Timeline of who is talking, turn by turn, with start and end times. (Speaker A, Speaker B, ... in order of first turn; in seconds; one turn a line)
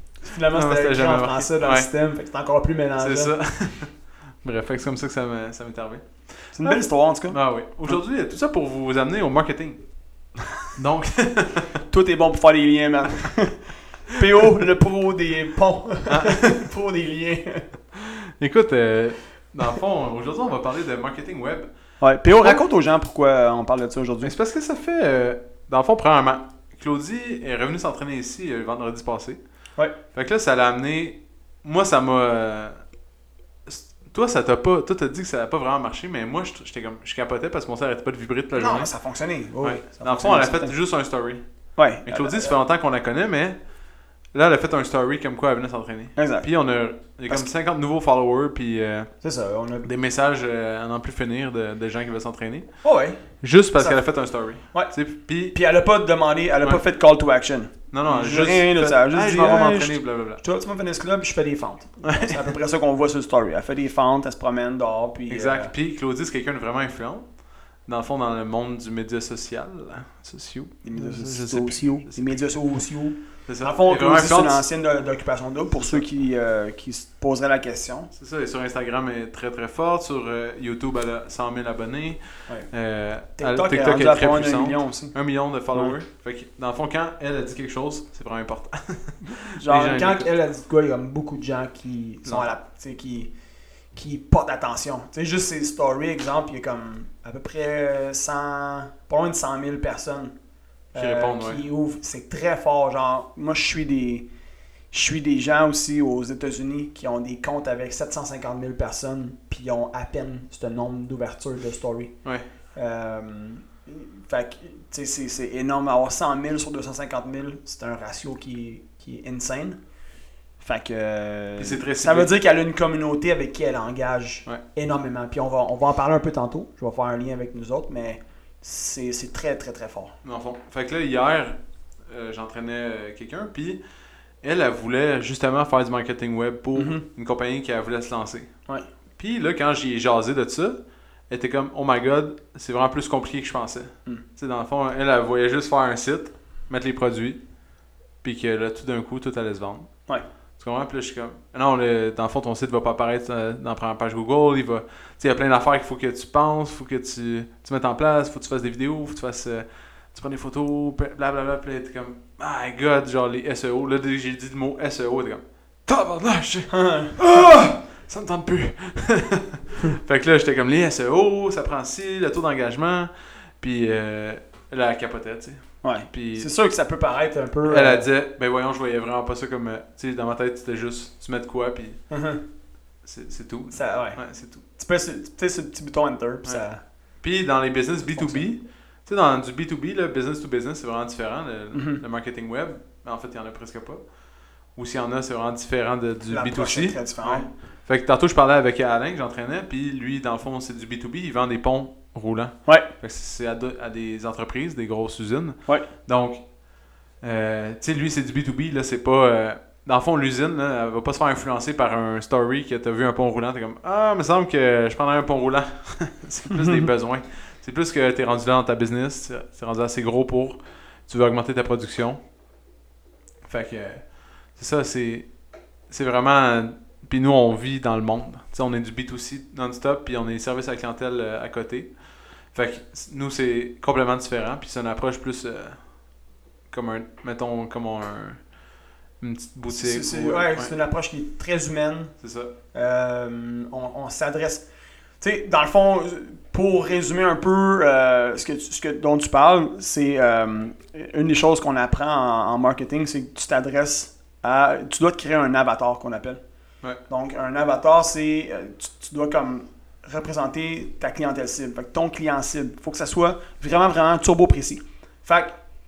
Speaker A: 0.2-3.3
Speaker B: 0.5-1.9
Speaker B: 3.0-9.8
Speaker A: 6.5-8.0
Speaker B: 10.8-11.7
Speaker A: 11.8-17.7
Speaker B: 16.1-16.6
Speaker B: 18.0-21.7
Speaker A: 22.0-24.3
Speaker B: 24.2-29.4
Speaker B: 30.1-32.8
Speaker B: 33.7-38.9
Speaker A: 38.6-40.8
Speaker B: 39.6-41.4
Speaker A: 41.8-42.6
Speaker B: 42.1-43.6
Speaker B: 44.3-49.1
Speaker A: 46.2-46.5
Speaker A: 49.2-49.9
Speaker B: 49.8-52.7
Speaker A: 52.8-53.2
Speaker B: 53.4-55.6
Speaker A: 53.8-54.0
Speaker A: 54.6-55.0
Speaker A: 55.5-65.7
Speaker B: 57.9-60.4
Speaker B: 62.0-62.5
Speaker B: 65.3-72.4
Speaker A: 70.8-78.1
Speaker B: 73.5-74.7
Speaker B: 75.8-76.0
Speaker B: 78.2-90.3
Speaker A: 83.4-85.1
Speaker A: 89.3-93.3
Speaker B: 92.2-92.5
Speaker A: 93.9-100.3
Speaker A: 100.9-104.3
Speaker B: 101.0-101.6
Speaker A: 104.9-112.1
Speaker A: 112.8-119.8
Speaker A: 120.6-130.2
Speaker B: 121.6-122.3
Speaker B: 130.2-131.6
Speaker B: 132.1-133.8
Speaker B: 134.4-138.5
Speaker A: 136.7-137.1
Speaker B: 139.2-140.8
Speaker B: 141.3-147.4
Speaker B: 148.2-149.9
Speaker B: 150.6-176.5
Speaker A: 166.7-167.1
Speaker A: 175.8-178.1
Speaker B: 177.6-182.0
Speaker A: 182.1-182.4
Speaker B: 183.0-184.6
Speaker A: 183.7-184.2
Speaker A: 184.8-186.8
Speaker B: 187.2-194.0
Speaker A: 188.1-188.5
Speaker A: 191.7-192.0
Speaker B: 194.8-206.4
Speaker A: 196.3-197.5
Speaker B: 207.2-222.2
Speaker B: 223.5-225.3
Speaker B: 225.9-232.0
Speaker B: 232.5-235.8
Speaker B: 236.7-238.4
Speaker B: 239.2-240.7
Speaker A: 239.7-242.1
Speaker B: 242.2-242.5
Speaker A: 242.7-244.7
Speaker A: 245.2-256.4
Speaker A: 257.1-265.6